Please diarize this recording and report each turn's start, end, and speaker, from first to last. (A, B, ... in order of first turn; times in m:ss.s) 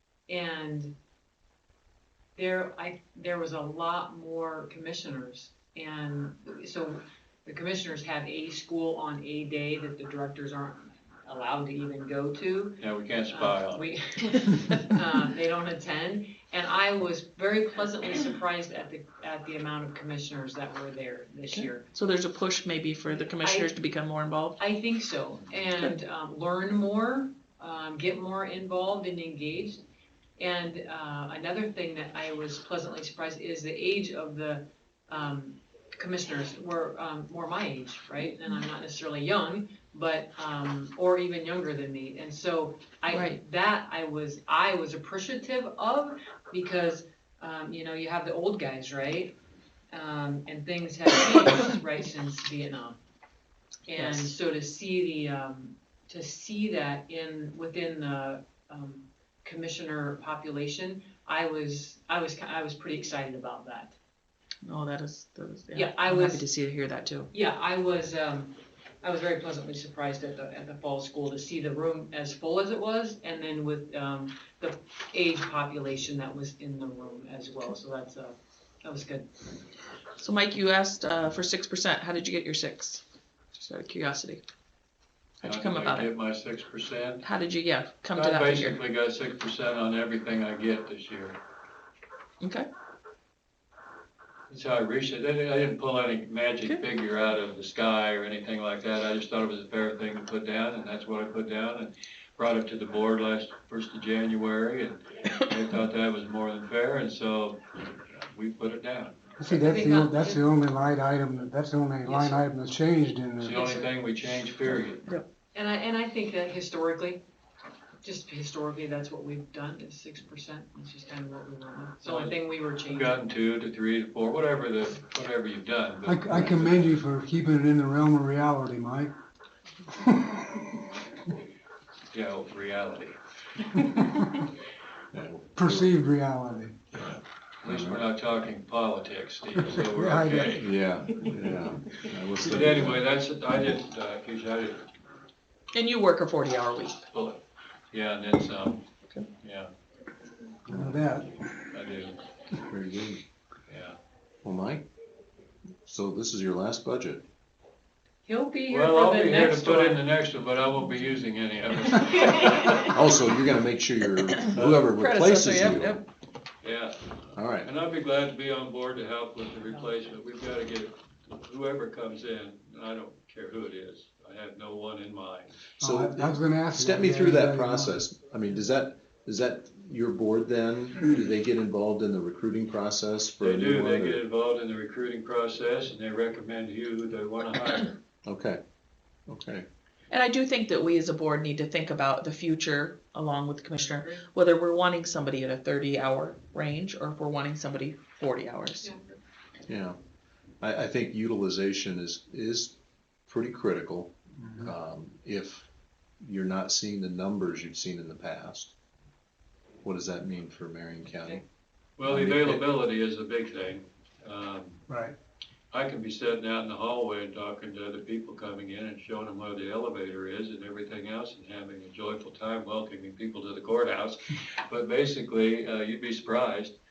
0:00.3-0:01.0 A
0:02.4-0:21.9 A
0:12.8-0:13.8 B
0:21.5-0:24.6 C
0:23.3-0:23.7 A
0:24.6-0:29.8 A
0:30.4-0:49.3 A
0:43.1-0:43.4 C
0:49.9-0:53.0 A
0:53.9-1:04.0 A
1:04.6-1:07.3 C
1:05.7-1:06.5 A
1:07.3-1:19.3 A
1:20.2-1:23.0 C
1:23.5-1:24.4 C
1:25.4-1:26.1 C
1:25.4-1:27.2 B
1:27.2-1:28.8 C
1:28.1-1:31.4 B
1:32.4-1:32.7 C
1:34.5-1:49.2 B
1:49.4-1:53.5 D
1:49.5-1:50.5 A
1:52.0-1:52.4 A
1:53.4-1:55.0 B
1:53.4-1:53.9 A
1:55.5-1:57.2 A
1:58.0-2:03.2 A
2:02.0-2:06.9 B
2:06.0-2:09.1 D
2:10.0-2:10.5 D
2:12.1-2:13.2 B
2:13.8-2:14.2 D
2:15.1-2:15.9 E
2:15.6-2:16.8 D
2:16.9-2:18.0 E
2:17.6-2:20.7 B
2:19.9-2:20.5 D
2:20.5-2:23.0 E
2:22.4-2:24.8 B
2:25.7-2:27.0 C
2:27.1-2:28.8 B
2:29.4-2:29.7 B
2:30.7-2:31.0 E
2:30.7-2:31.3 D
2:31.7-2:32.2 B
2:32.5-2:33.2 E
2:33.7-2:34.0 B
2:34.4-2:34.9 E
2:35.8-2:37.2 E
2:38.2-2:40.0 A
2:38.7-2:43.2 B
2:41.9-2:42.9 A
2:42.9-2:46.0 E
2:44.5-2:44.9 B
2:44.9-2:46.1 C
2:46.6-2:55.6 B
2:47.3-2:47.7 E
2:55.8-3:04.2 E
2:55.8-2:58.0 D
3:03.4-3:08.0 B
3:08.2-3:08.6 E
3:09.3-3:09.7 E
3:10.1-3:18.9 C
3:13.9-3:14.2 A
3:18.8-3:19.2 A
3:19.7-3:20.0 E
3:20.6-3:25.7 E
3:26.2-3:28.7 E
3:29.8-3:31.4 E
3:32.0-3:34.8 B
3:32.0-3:32.6 E
3:34.9-3:35.1 D
3:35.7-3:46.8 B